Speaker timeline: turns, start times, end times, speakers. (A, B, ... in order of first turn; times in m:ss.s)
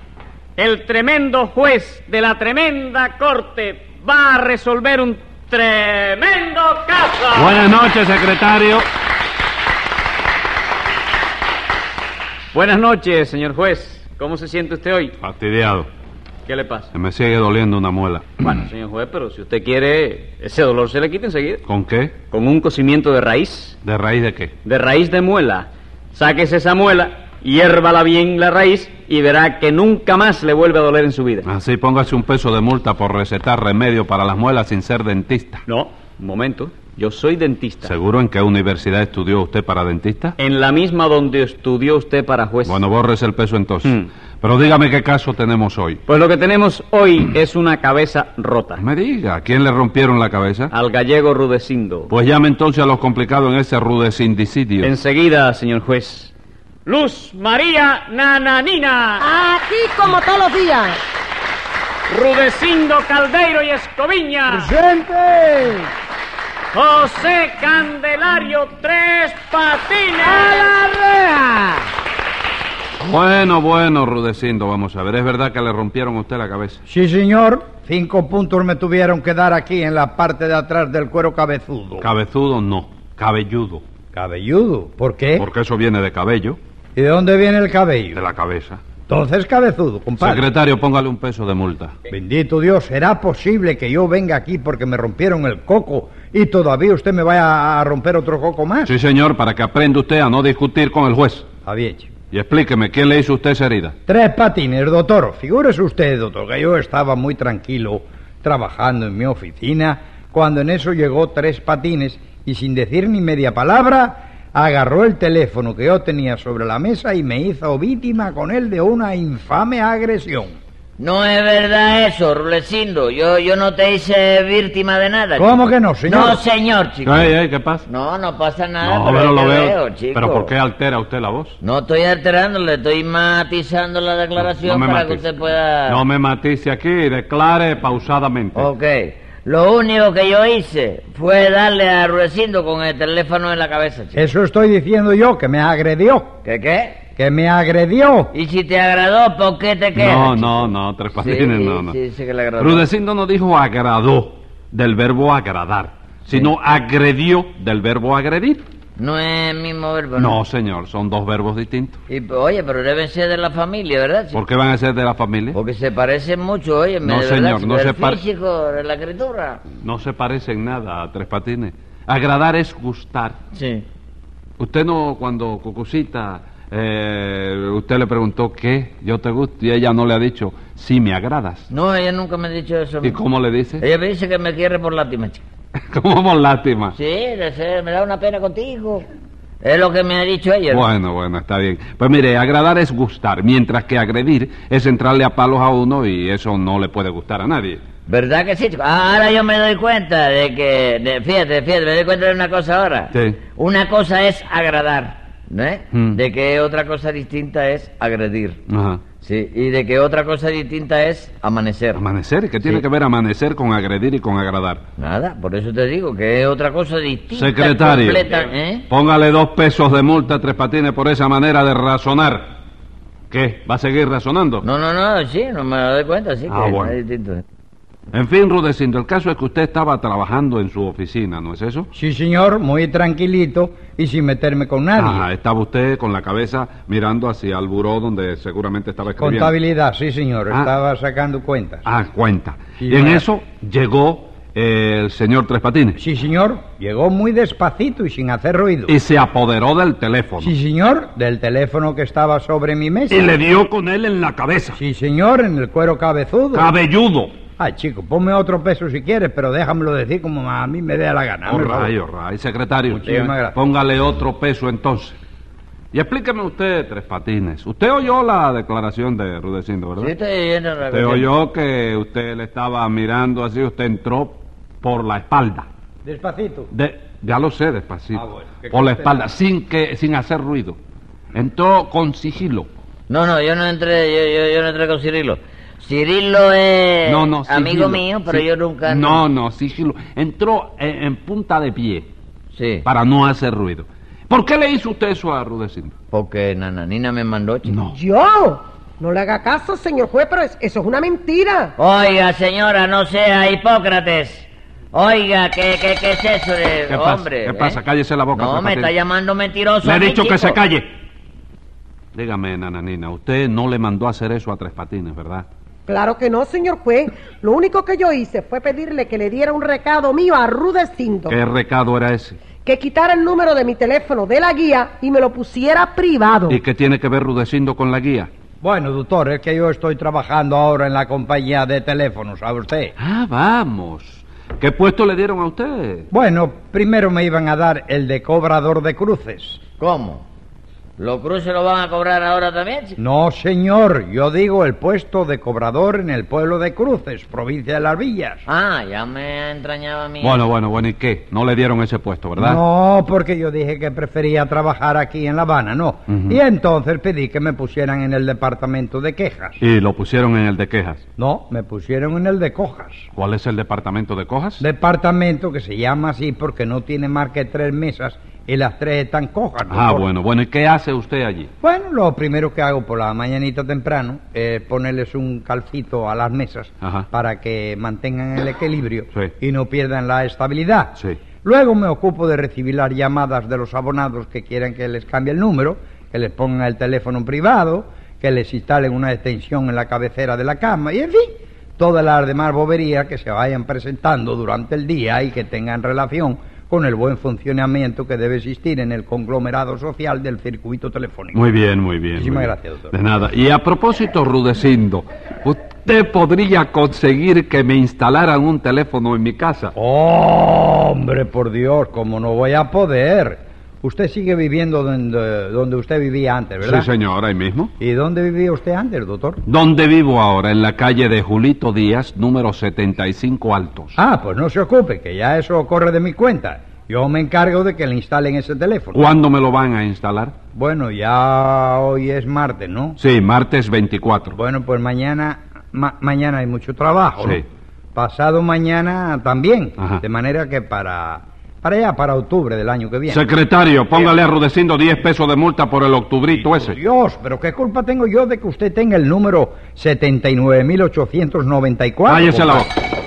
0:00.6-0:07.6 A
0:07.3-0:08.9 B
0:12.5-0:15.1 A
0:15.2-0:15.9 B
0:16.5-0:16.9 A
0:16.9-0:18.6 B
0:18.5-0:21.6 A
0:21.6-0:22.2 B
0:22.3-0:23.8 A
0:23.8-0:24.6 B
0:24.6-0:31.5 A
0:31.4-0:35.6 B
0:35.7-0:37.9 A
0:37.8-0:40.4 B
0:40.4-0:42.8 A
0:42.6-0:46.0 B
0:46.1-0:48.8 A
0:48.8-0:50.7 B
0:50.7-0:52.1 A
0:52.1-0:54.9 B
0:54.8-0:56.3 A
0:56.9-0:59.2 A
0:59.2-1:01.0 C
1:02.1-1:04.7 A
1:04.5-1:05.9 D
1:06.7-1:10.7 A
1:10.7-1:11.7 D
1:13.0-1:16.8 B
1:16.9-1:22.1 D
1:22.0-1:23.8 B
1:24.1-1:25.5 D
1:25.4-1:26.6 B
1:27.0-1:28.2 D
1:28.1-1:28.8 B
1:29.1-1:30.5 D
1:30.2-1:32.0 B
1:32.1-1:38.9 D
1:38.8-1:41.5 B
1:41.7-1:42.1 D
1:42.3-1:44.0 B
1:44.1-2:00.6 D
2:01.0-2:07.3 E
2:05.4-2:06.4 D
2:07.0-2:07.9 B
2:07.9-2:10.5 E
2:08.8-2:11.6 B
2:11.6-2:16.0 E
2:14.5-2:15.2 B
2:15.9-2:18.7 B
2:18.6-2:24.3 E
2:24.2-2:26.4 D
2:26.4-2:27.0 E
2:27.2-2:28.3 D
2:28.3-2:32.9 E
2:30.0-2:32.0 B
2:32.6-2:38.6 B
2:39.0-2:40.4 E
2:40.2-2:42.0 B
2:42.1-2:44.4 E
2:44.3-2:45.6 B
2:45.5-2:49.6 E
2:47.0-2:48.2 B
2:49.8-2:53.4 B
2:53.5-2:53.9 E
2:54.6-3:01.7 B
3:01.7-3:03.2 E
3:03.0-3:03.8 B
3:03.8-3:05.4 E
3:05.9-3:07.0 B
3:06.9-3:09.0 E
3:09.6-3:10.9 E
3:10.7-3:17.8 B
3:18.1-3:28.6 E
3:23.1-3:23.4 B
3:25.9-3:26.2 B
3:28.7-3:29.0 B
3:29.2-3:32.0 E
3:32.0-3:34.8 B
3:35.0-3:38.9 E
3:37.3-3:38.3 B
3:38.9-3:42.5 B
3:43.3-3:44.6 B
3:44.6-3:47.4 E
3:46.5-3:47.0 B
3:48.1-3:51.9 B
3:51.9-3:55.2 D
3:55.0-3:59.5 B
3:59.2-4:01.9 D
4:01.8-4:06.0 B
4:02.8-4:03.2 D
4:06.0-4:09.0 D
4:08.9-4:10.5 B
4:10.4-4:13.3 D
4:13.1-4:14.8 B
4:14.8-4:16.7 D
4:16.5-4:17.3 B
4:17.6-4:21.9 D
4:21.5-4:25.2 B
4:22.9-4:23.6 D
4:25.9-4:30.1 B
4:30.0-4:31.3 E
4:30.9-4:35.7 B
4:36.0-4:36.7 D
4:36.7-4:40.8 B
4:38.1-4:39.2 D
4:41.3-4:42.7 B
4:43.1-4:49.2 E
4:47.1-4:52.1 B
4:52.5-4:52.9 E
4:52.8-4:55.9 B
4:56.1-4:57.8 E
4:57.7-4:58.0 B
4:57.9-5:01.7 C
5:01.8-5:07.8 E
5:06.9-5:08.9 B
5:08.4-5:10.6 E
5:09.8-5:10.9 B
5:12.1-5:15.5 B
5:15.9-5:21.4 C
5:21.3-5:22.4 B
5:22.6-5:26.6 C
5:26.5-5:28.3 B
5:28.6-5:32.9 D
5:33.0-5:36.1 B
5:36.1-5:39.6 D
5:39.8-5:40.3 E
5:41.0-5:43.0 E
5:43.0-5:48.4 D
5:48.5-5:50.5 E
5:50.2-5:52.6 B
5:52.4-5:59.6 D
5:56.1-5:56.4 B
5:59.6-6:01.0 B
6:01.2-6:03.0 D
6:03.2-6:04.6 B
6:04.6-6:10.1 D
6:09.7-6:11.5 B
6:11.6-6:41.4 D
6:41.3-6:49.7 B
6:42.2-6:42.9 D
6:49.8-6:56.9 D
6:56.6-6:57.7 B
6:57.8-6:59.4 D
6:59.4-7:04.0 B
7:04.0-7:09.1 D
7:08.9-7:10.3 B
7:10.5-7:13.0 D
7:13.0-7:14.4 B
7:14.3-7:23.3 D
7:17.2-7:17.4 B
7:23.1-7:26.8 B
7:26.3-7:32.7 D
7:32.1-7:32.7 B